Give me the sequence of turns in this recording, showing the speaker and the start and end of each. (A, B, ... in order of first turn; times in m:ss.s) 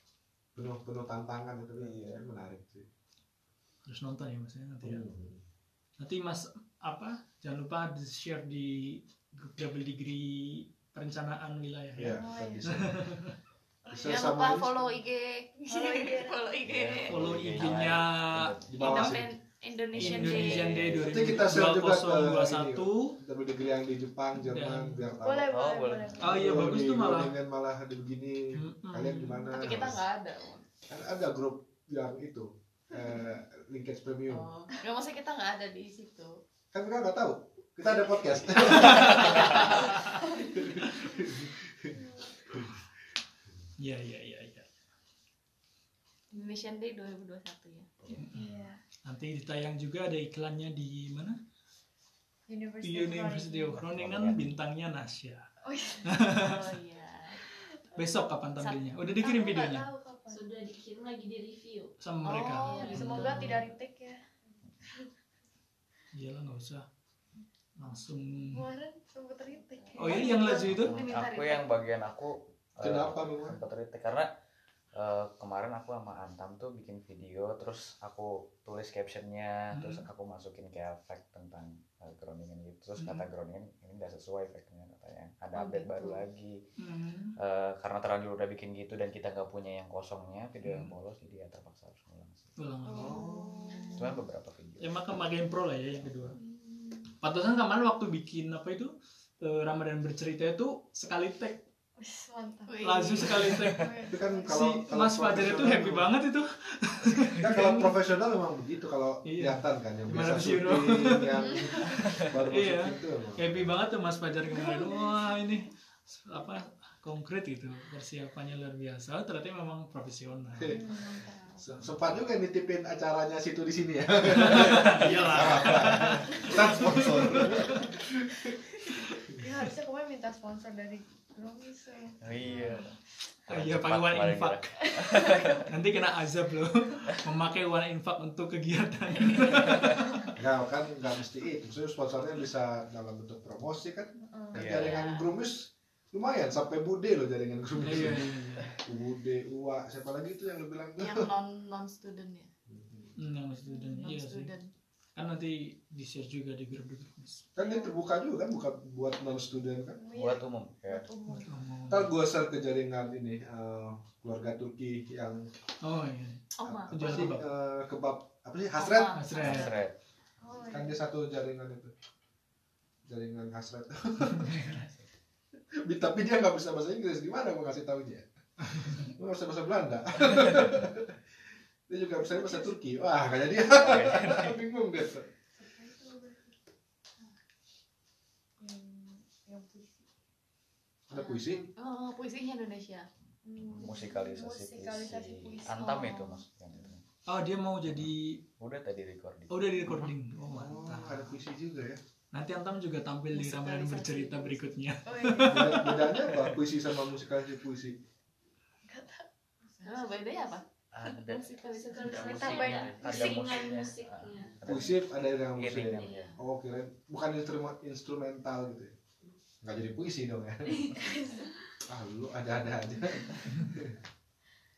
0:00.6-0:02.9 A
0:01.8-0:02.3 B
0:03.9-0:05.0 C
0:04.8-0:05.4 A
0:06.0-0:13.3 C
0:12.0-0:13.0 A
0:12.1-0:12.9 D
0:13.9-0:14.2 D
0:13.9-0:14.9 A
0:13.9-0:17.2 E
0:15.6-0:16.5 D
0:16.6-0:19.0 B
0:17.1-0:19.2 C
0:18.7-0:19.3 A
0:18.8-0:20.8 E
0:19.9-0:21.6 B
0:20.0-0:23.2 C
0:21.0-0:30.0 A
0:24.4-0:25.1 C
0:25.2-0:26.6 D
0:25.5-0:26.6 B
0:26.2-0:27.4 C
0:28.6-0:29.5 C
0:29.5-0:30.7 E
0:30.9-0:34.5 A
0:34.3-0:36.4 E
0:36.7-0:39.8 A
0:38.7-0:40.2 C
0:40.4-0:42.0 A
0:43.8-0:44.7 C
0:46.3-0:47.9 E
0:48.0-0:48.4 B
0:48.1-0:48.4 C
0:48.3-0:48.8 D
0:49.0-0:51.4 C
0:52.5-0:53.8 D
0:52.8-0:55.4 C
0:53.8-0:54.5 B
0:55.6-0:56.4 D
0:56.0-0:56.6 C
0:56.3-0:57.4 E
0:58.0-0:59.9 C
0:58.6-0:59.9 E
0:59.7-1:00.5 D
1:00.3-1:01.9 F
1:02.0-1:03.6 C
1:02.2-1:03.3 E
1:02.6-1:03.6 F
1:02.8-1:04.2 D
1:06.1-1:06.8 C
1:07.8-1:08.6 C
1:08.5-1:10.7 D
1:09.8-1:11.8 E
1:10.0-1:10.9 C
1:10.6-1:14.3 B
1:12.8-1:13.6 A
1:14.9-1:26.6 B
1:19.7-1:20.1 C
1:23.0-1:23.3 C
1:25.5-1:26.2 E
1:26.8-1:27.3 C
1:27.4-1:32.5 B
1:30.6-1:30.9 C
1:32.6-1:33.2 C
1:32.9-1:34.1 E
1:32.9-1:34.1 D
1:33.0-1:33.6 A
1:34.0-1:35.0 B
1:34.8-1:36.4 C
1:36.4-1:37.1 D
1:37.2-1:41.6 C
1:42.0-1:44.6 D
1:42.7-1:43.8 E
1:42.8-1:43.9 C
1:44.1-1:46.1 A
1:44.4-1:47.9 C
1:47.2-1:53.7 A
1:49.2-1:51.4 C
1:51.4-1:51.8 E
1:52.5-2:00.7 C
1:54.7-1:55.2 D
2:00.6-2:01.0 A
2:00.7-2:01.5 D
2:01.0-2:01.6 E
2:01.6-2:08.6 A
2:04.4-2:07.9 C
2:08.9-2:09.2 C
2:09.3-2:12.9 D
2:12.2-2:15.7 B
2:13.5-2:14.7 C
2:15.0-2:15.5 D
2:15.7-2:20.2 C
2:19.1-2:20.1 B
2:20.4-2:28.3 A
2:24.2-2:24.6 D
2:24.5-2:25.0 B
2:24.7-2:25.3 E
2:27.8-2:28.7 C
2:28.8-2:31.3 A
2:31.0-2:32.5 E
2:32.7-2:33.2 A
2:33.2-2:34.5 C
2:34.0-2:34.7 E
2:35.2-2:37.4 C
2:37.6-2:40.0 A
2:37.6-2:37.9 D
2:40.0-2:41.6 D
2:40.1-2:41.1 B
2:41.3-2:42.1 C
2:41.9-2:45.5 A
2:45.8-2:47.5 C
2:46.6-2:47.3 E
2:46.6-2:49.2 A
2:48.8-2:49.9 E
2:49.1-2:49.7 C
2:49.4-2:49.9 B
2:50.4-2:51.0 D
2:50.7-2:51.9 A
2:53.1-2:54.7 A
2:54.4-2:54.8 C
2:54.6-2:55.0 B
2:55.8-2:58.3 A
2:58.8-3:01.1 A
3:01.9-3:05.3 A
3:03.8-3:04.3 B
3:03.8-3:04.6 C
3:05.6-3:06.5 D
3:08.6-3:10.1 D
3:11.1-3:11.7 A
3:11.1-3:11.6 F
3:11.8-3:13.1 E
3:13.4-3:16.0 D
3:13.6-3:17.0 B
3:15.7-3:16.4 E
3:17.3-3:18.4 C
3:17.8-3:20.1 B
3:19.5-3:21.4 C
3:20.5-3:22.0 A
3:22.3-3:26.6 C
3:23.3-3:24.8 F
3:25.1-3:25.9 D
3:25.5-3:28.0 A
3:28.9-3:30.6 D
3:29.8-3:32.3 E
3:30.9-3:35.0 B
3:31.6-3:34.6 F
3:32.0-3:33.8 D
3:34.6-3:39.0 A
3:35.6-3:36.3 B
3:35.9-3:36.3 F
3:39.6-3:41.0 A
3:40.7-3:41.5 F
3:41.9-3:44.0 A